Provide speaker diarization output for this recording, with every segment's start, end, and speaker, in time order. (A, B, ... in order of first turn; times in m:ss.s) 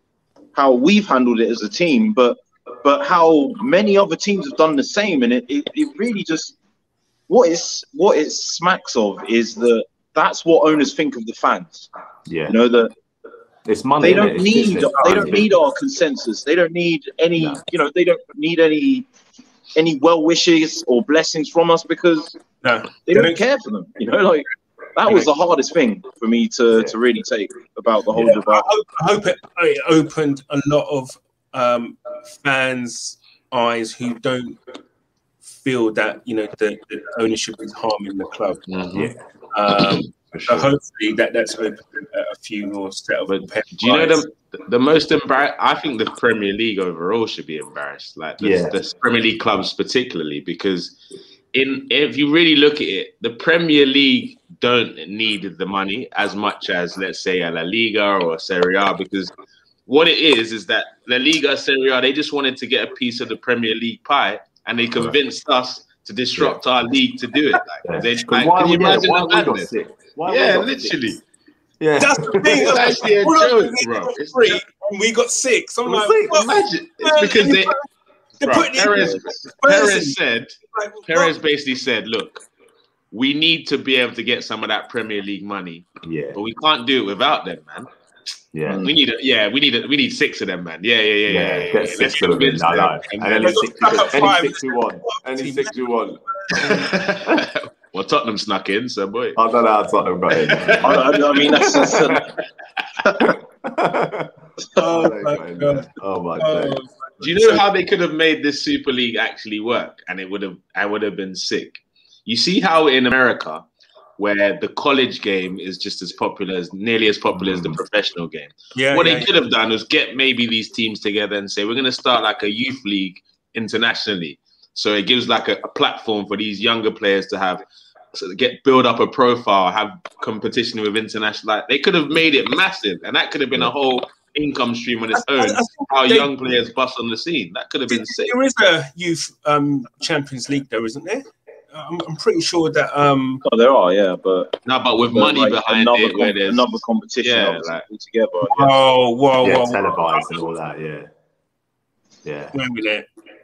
0:00.5-0:06.6 A
0:07.3-0:11.9 A
0:12.3-0:12.6 B
0:12.5-0:12.9 A
0:13.7-0:15.5 B
0:14.0-0:19.1 A
0:15.0-0:15.4 C
0:17.4-0:17.6 B
0:19.8-0:22.4 A
0:22.6-0:23.4 C
0:23.1-0:28.7 A
0:28.2-0:34.6 C
0:35.5-0:38.6 C
0:38.7-0:39.1 D
0:38.9-0:39.2 B
0:39.5-0:44.2 C
0:40.3-0:40.7 D
0:43.3-0:51.0 D
0:48.4-0:48.8 B
0:51.5-0:59.3 D
0:59.9-1:09.7 D
1:07.8-1:11.0 B
1:10.3-1:11.2 D
1:11.8-1:12.8 B
1:12.0-1:17.8 C
1:12.5-1:14.6 D
1:15.8-1:16.5 B
1:16.3-1:17.8 D
1:18.4-1:20.2 C
1:18.4-1:22.4 D
1:20.7-1:21.3 C
1:23.1-1:27.9 D
1:26.0-1:26.4 B
1:28.5-1:28.9 B
1:28.7-1:28.9 A
1:28.8-1:33.6 D
1:31.3-1:37.4 B
1:33.4-1:35.7 C
1:36.5-1:36.9 C
1:36.6-1:39.4 D
1:39.4-1:42.3 B
1:40.5-1:41.7 D
1:40.8-1:42.3 A
1:43.2-1:46.8 B
1:44.8-1:47.6 C
1:47.2-1:53.7 D
1:54.2-2:07.6 D
1:57.3-1:57.8 B
1:58.8-1:59.3 C
2:08.1-2:18.4 D
2:15.1-2:16.3 C
2:17.9-2:23.4 C
2:23.4-2:24.6 A
2:24.6-2:27.9 D
2:25.1-2:28.8 A
2:28.5-2:30.4 C
2:29.4-2:31.1 B
2:32.2-2:32.6 B
2:32.5-2:33.1 C